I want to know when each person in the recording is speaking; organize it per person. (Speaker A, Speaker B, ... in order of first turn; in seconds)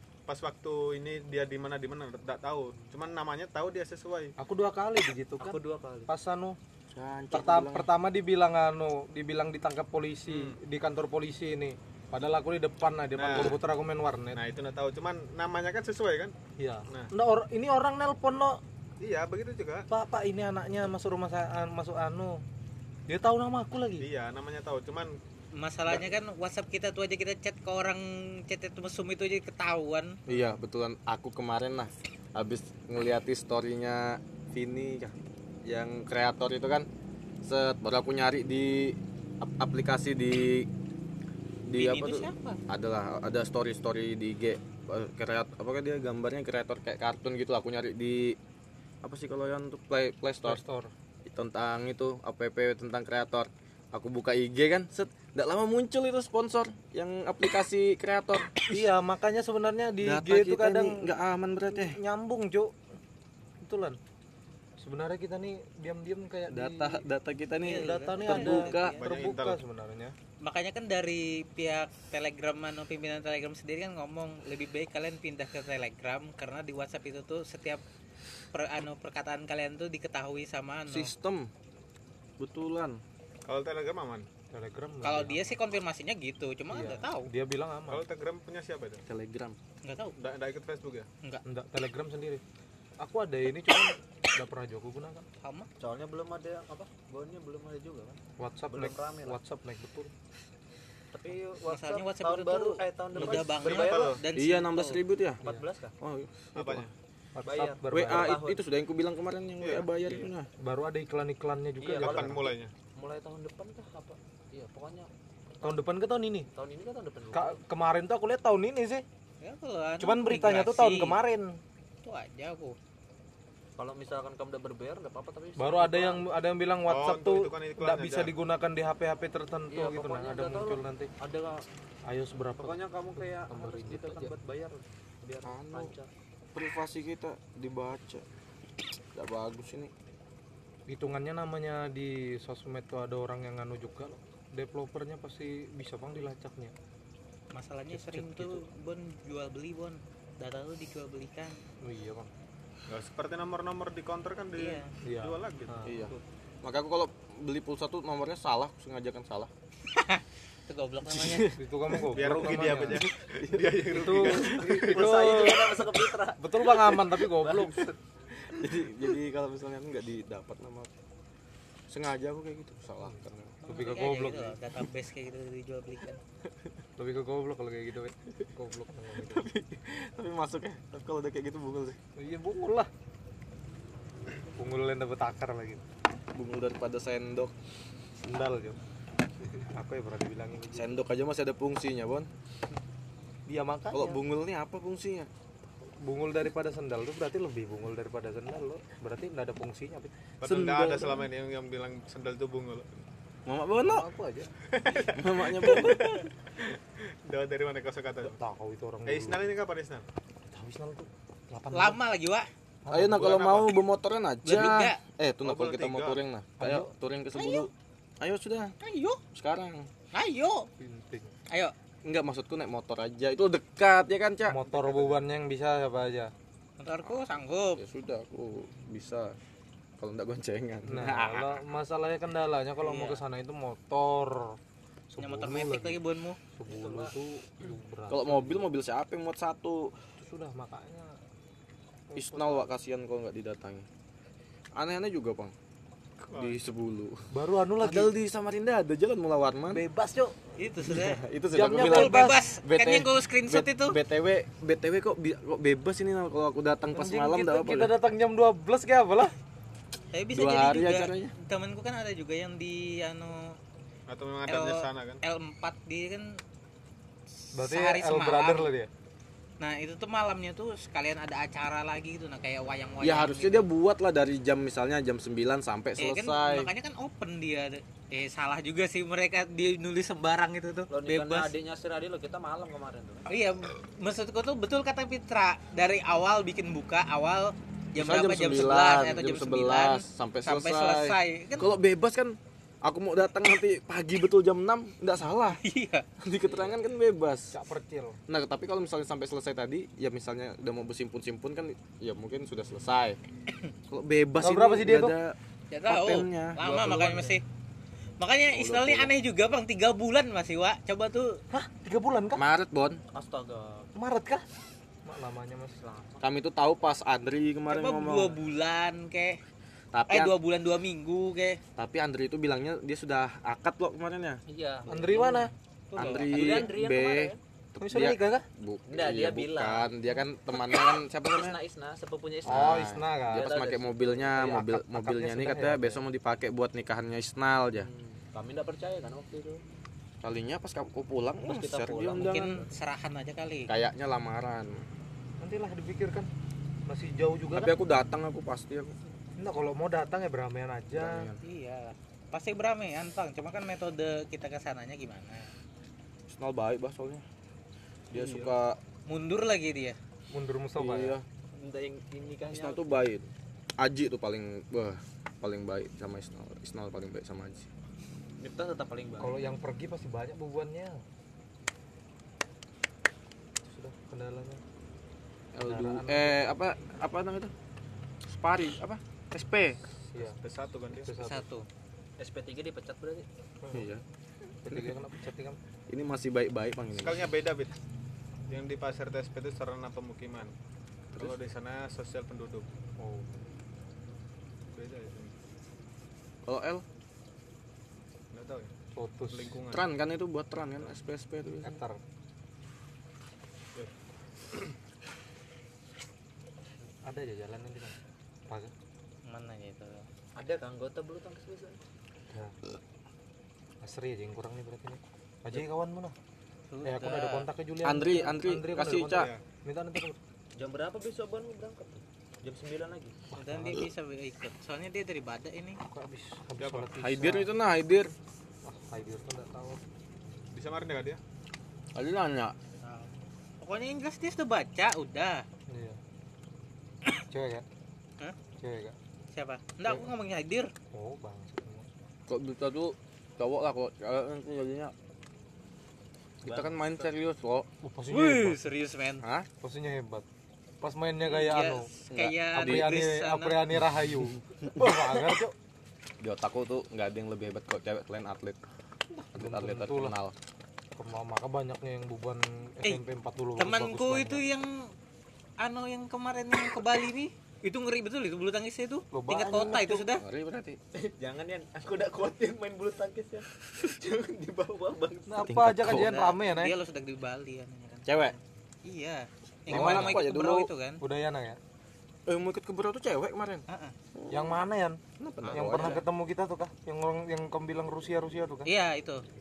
Speaker A: 0.3-4.3, 10.3-10.6, 13.1-13.6, 14.3-16.3, 19.0-19.9, 24.0-25.2, 68.8-69.6, 83.5-84.2, 87.9-89.0, 90.2-91.1, 103.2-104.2, 106.5-106.9, 109.6-110.3, 111.9-112.7, 126.9-128.3, 152.9-156.2, 162.1-165.2, 200.4-202.9, 204.7-208.4, 209.1-210.1, 213.1-213.6, 215.4-216.2, 246.3-246.6, 264.1-265.2, 380.2-381.1, 386.9-387.7, 388.5-390.5, 391.1-392.7, 394.7-395.3, 398.3-398.7, 399.3-399.9, 419.0-419.4, 426.6-426.9, 430.5-431.2
Speaker B: 4.4-6.6, 7.3-14.4, 16.6-18.6, 19.9-22.4, 23.1-24.1, 50.4-50.9, 58.7-61.1, 61.8-62.7, 63.6-64.0, 64.8-67.0, 67.7-70.1, 84.5-85.4, 86.7-88.0, 91.5-92.4, 93.0-95.2, 98.4-100.1, 107.3-108.4, 110.6-112.4, 115.6-116.5, 117.3-119.0, 120.0-121.6, 125.6-131.1, 132.1-134.3, 140.9-146.7, 147.9-148.6, 151.8-152.3, 155.0-156.0, 161.6-163.0, 163.9-167.9, 173.0-174.5, 177.0-179.5, 182.2-182.9, 184.6-185.8, 188.2-188.8, 189.7-190.9, 193.4-194.2, 195.8-200.1, 203.8-204.5, 208.2-209.5, 210.5-212.0, 212.8-213.6, 216.6-216.9, 220.8-221.3, 224.5-226.3, 230.8-234.6, 235.1-236.0, 236.5-238.6, 240.2-241.2, 242.1-242.7, 247.3-248.1, 249.7-250.4, 251.5-252.4, 256.9-259.3, 267.5-268.9, 297.5-298.2, 304.4-305.1, 311.5-312.4, 313.9-314.4, 315.0-315.8, 324.9-325.5, 327.8-328.4, 332.4-333.5, 334.3-336.0, 345.4-346.3, 346.9-347.7, 349.4-351.3, 360.3-361.2, 369.2-371.0, 373.6-374.6, 375.6-376.5, 380.1-380.4, 380.9-381.5, 383.6-383.9, 384.6-385.6, 393.0-393.3, 398.9-399.5, 401.6-402.0, 407.1-408.7, 412.3-412.6, 413.8-416.1, 416.8-420.2, 423.3-423.9, 425.9-427.5, 428.6-429.8, 435.7-436.0, 437.3-437.6, 438.6-438.9, 440.9-441.9, 447.8-448.6, 449.6-450.2, 450.8-451.9, 452.5-455.5, 459.1-460.1, 460.9-464.4, 469.1-470.1, 475.3-476.7, 479.7-480.2, 481.0-481.6, 484.3-485.0, 485.5-488.7
Speaker C: 5.4-6.1, 95.8-99.4, 101.1-104.2, 105.4-105.9, 107.4-108.6, 111.8-115.1, 116.5-117.6, 123.8-126.2, 129.7-131.6, 132.5-136.1, 164.5-167.9, 236.7-237.1, 280.9-283.3, 306.6-307.4, 313.1-313.9, 315.8-316.2, 324.5-327.4, 328.9-329.9, 331.3-334.5, 337.8-339.6, 341.4-342.7, 358.1-358.5, 361.5-363.0, 368.4-369.3, 382.2-383.2, 410.4-411.8, 420.6-423.1, 446.4-446.8, 471.0-475.6
Speaker D: 6.9-7.9, 30.3-35.1, 35.6-36.9, 37.4-40.7, 41.6-48.4, 49.0-50.6, 51.2-58.8, 60.0-62.0, 66.5-69.0, 80.9-81.5, 82.4-83.0, 89.1-89.6, 104.3-105.4, 106.0-106.8, 107.9-110.5, 135.4-135.9, 136.5-138.2, 139.1-139.9, 155.8-159.5, 161.1-161.6, 162.3-164.8, 168.5-170.9, 171.9-173.6, 179.2-182.0, 186.3-187.5, 190.7-192.3, 193.9-195.3, 200.4-201.2, 203.4-204.1, 205.1-206.3, 212.9-218.7, 219.3-219.9, 222.1-224.6, 227.8-229.3, 230.0-231.5, 238.1-239.9, 242.2-243.9, 244.7-245.5, 246.2-247.2, 247.8-249.8, 250.8-257.9, 260.3-261.3, 273.0-276.7, 288.0-295.6, 296.2-297.5, 298.3-303.2, 303.9-305.4, 305.9-306.6, 308.5-309.1, 312.4-313.0, 316.2-318.4, 319.9-320.3, 321.8-324.4, 325.9-331.6, 332.4-337.9, 340.2-342.6, 343.7-344.8, 347.5-348.9, 350.9-351.4, 356.3-357.2, 358.1-358.8, 360.8-361.2, 362.5-367.7, 375.5-377.5, 378.3-379.8, 383.7-384.0, 384.7-384.9, 385.9-387.3, 391.1-391.4, 396.4-396.8, 399.7-401.8, 417.8-419.3, 427.0-428.1, 431.9-432.5, 442.3-444.9, 446.4-447.7, 449.2-449.5, 452.1-452.9, 454.7-455.4, 456.2-458.6, 459.4-460.3, 470.2-470.8, 475.4-476.2, 478.1-478.4, 479.7-480.7, 482.3-484.6, 485.2-486.0
Speaker E: 25.6-30.1, 41.7-42.6, 67.6-69.0, 70.4-77.8, 78.5-81.1, 85.0-87.3, 89.8-90.1, 95.4-95.7, 101.7-105.0, 119.4-121.1, 122.0-122.8, 147.5-151.6, 154.6-154.9, 159.9-161.6, 173.6-176.2, 211.7-212.5, 214.4-215.0, 217.3-217.7, 218.8-219.2, 220.1-220.7, 226.8-227.8, 232.8-233.2, 235.2-236.4, 250.6-251.2, 251.7-254.0, 260.1-263.6, 264.5-266.3, 267.4-268.7, 269.6-273.7, 276.0-281.5, 283.3-291.7, 295.5-296.1, 305.7-307.4, 308.2-311.4, 317.7-319.4, 320.1-321.6, 325.0-325.4, 325.9-326.7, 342.2-343.7, 351.4-355.5, 359.1-360.0, 381.2-381.7, 409.2-410.1, 416.7-417.5, 423.3-425.8, 432.8-435.4, 439.3-440.7, 448.1-449.2, 451.3-453.6, 463.6-464.7, 465.6-470.2, 475.8-481.0, 483.7-483.9, 485.5-486.0, 488.6-489.2